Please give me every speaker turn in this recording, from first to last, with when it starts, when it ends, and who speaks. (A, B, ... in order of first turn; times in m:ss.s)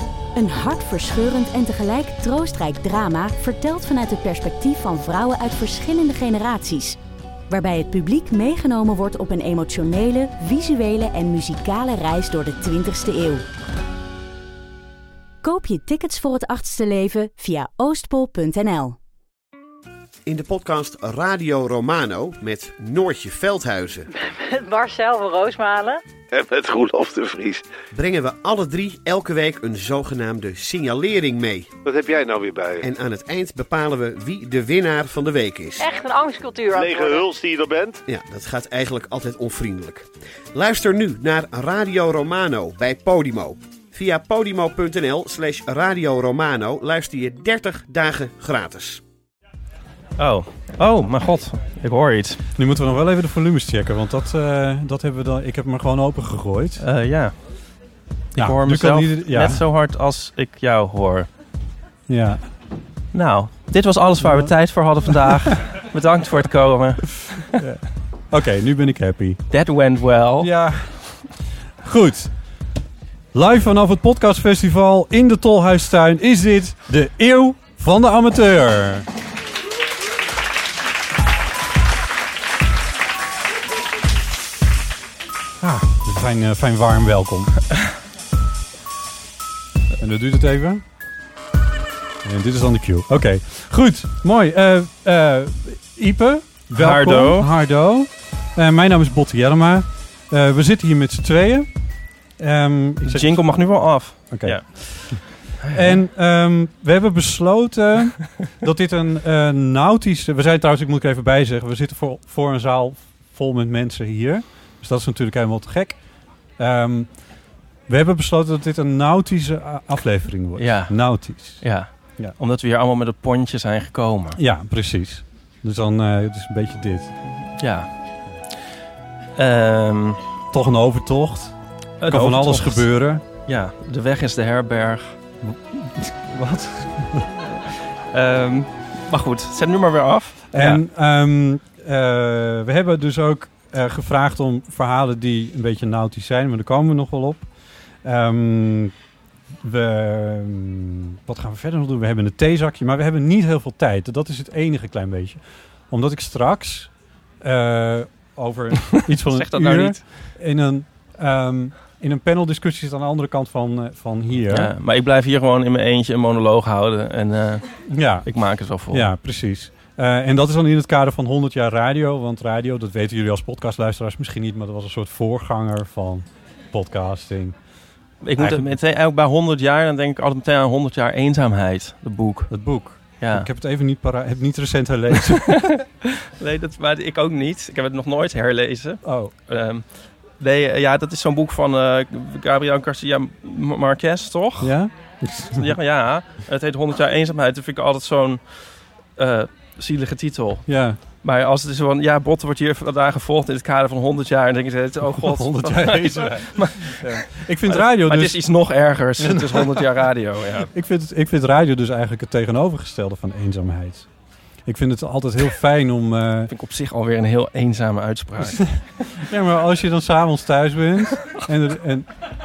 0:00.4-0:07.0 A
0:07.5-0:13.4 A
0:15.4-0:19.0 A
0:20.3-0:24.1 B
0:24.1-0:26.0 C
0:26.3-0:27.7 D
0:27.9-0:31.7 B
0:31.8-0:32.9 D
0:32.8-0:35.9 B
0:35.8-0:37.3 C
0:36.7-0:38.0 D
0:38.1-0:49.0 B
0:50.2-0:52.4 E
0:52.5-0:56.8 F
0:56.8-0:57.4 E
0:58.4-1:01.3 E
0:58.4-0:59.6 F
1:02.1-1:02.5 F
1:03.1-1:07.6 E
1:04.2-1:04.5 F
1:07.5-1:09.4 F
1:09.5-1:10.5 E
1:10.4-1:11.3 F
1:11.8-1:12.3 F
1:13.3-1:19.1 F
1:25.6-1:27.6 F
1:30.0-1:30.8 F
1:32.2-1:41.7 F
1:36.7-1:37.5 E
1:42.4-1:43.4 F
1:43.0-1:46.0 E
1:44.3-1:56.0 F
1:56.6-1:57.1 F
1:57.9-2:01.6 F
2:00.6-2:04.4 E
2:04.4-2:07.1 F
2:07.6-2:07.9 E
2:09.4-2:10.2 E
2:10.5-2:11.6 F
2:12.0-2:12.9 E
2:12.1-2:13.2 F
2:13.5-2:15.2 E
2:15.4-2:17.4 F
2:17.6-2:20.8 E
2:20.5-2:27.5 F
2:28.0-2:28.9 F
2:29.6-2:44.7 F
2:38.9-2:40.0 E
2:44.5-2:47.7 E
2:47.9-2:48.3 F
2:48.2-2:49.1 E
2:48.9-2:57.6 F
2:58.2-3:02.5 E
2:58.4-2:58.8 F
3:02.5-3:05.7 F
3:03.2-3:03.5 E
3:05.3-3:09.8 E
3:09.0-3:09.3 F
3:10.4-3:14.8 E
3:14.6-3:15.8 F
3:15.6-3:18.4 E
3:19.2-3:20.7 E
3:20.7-3:21.0 F
3:21.2-3:30.7 E
3:25.2-3:28.4 F
3:29.2-3:29.9 F
3:30.7-3:34.1 F
3:34.7-3:36.5 F
3:36.5-3:38.7 E
3:38.4-3:42.1 F